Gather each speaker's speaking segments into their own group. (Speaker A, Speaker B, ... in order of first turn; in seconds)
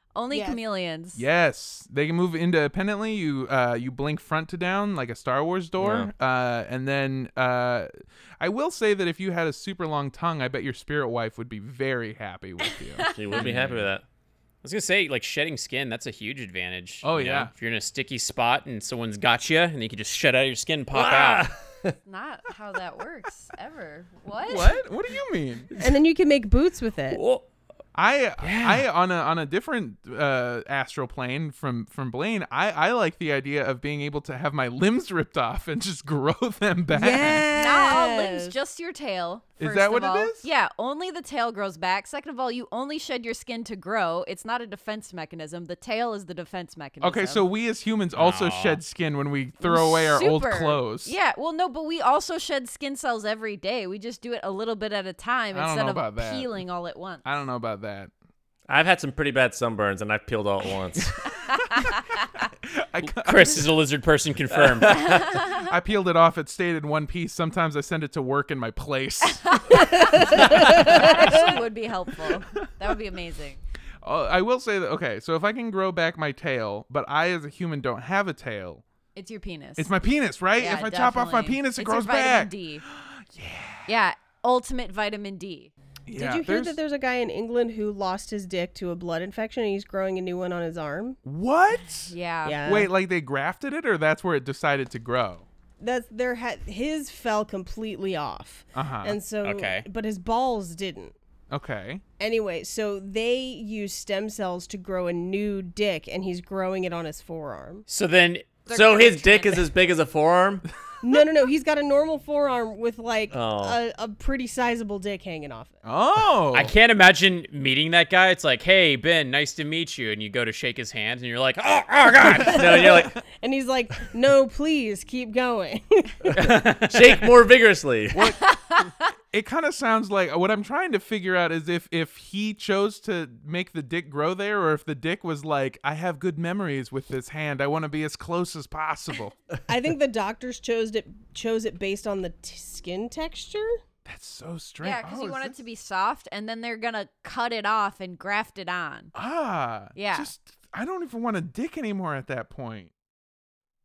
Speaker A: 0.1-1.2, 13.0-13.4, 22.1-24.8, 37.5-47.5, 49.6-57.2, 61.8-62.2, 65.1-65.7, 69.5-73.6, 79.2-79.9, 80.6-82.8, 83.9-85.7, 92.1-92.8, 108.7-109.7, 128.4-129.0, 144.8-149.1, 149.9-150.3
Speaker B: 0.3-0.6, 25.8-27.2, 36.9-38.5, 70.2-71.5, 86.2-91.2, 92.4-92.9, 95.8-101.2, 102.2-107.8, 111.0-115.8, 123.3-126.3, 139.7-143.7
Speaker C: 1.1-13.1, 17.0-17.5, 24.5-25.7, 27.9-37.5, 39.6-40.5, 47.0-51.1, 55.5-56.6, 57.2-58.1, 61.0-61.9, 62.5-63.6, 65.5-71.5, 72.1-72.6, 74.0-78.8, 79.8-83.9, 86.1-86.8, 91.2-95.5, 98.8-99.2, 101.5-102.0, 115.8-116.7, 122.2-123.2, 128.1-139.3, 144.1-145.6, 149.1-152.9
Speaker D: 5.8-6.1, 13.1-14.1, 20.9-22.0, 58.7-61.2, 64.5-65.2, 108.7-110.7, 113.3-113.8, 122.4-123.2, 126.3-128.3
Speaker E: 13.3-13.9, 14.6-21.5, 27.1-27.4, 28.4-28.8, 48.1-48.8, 63.2-65.0, 99.4-99.8, 107.9-108.6, 116.5-122.9, 126.3-127.3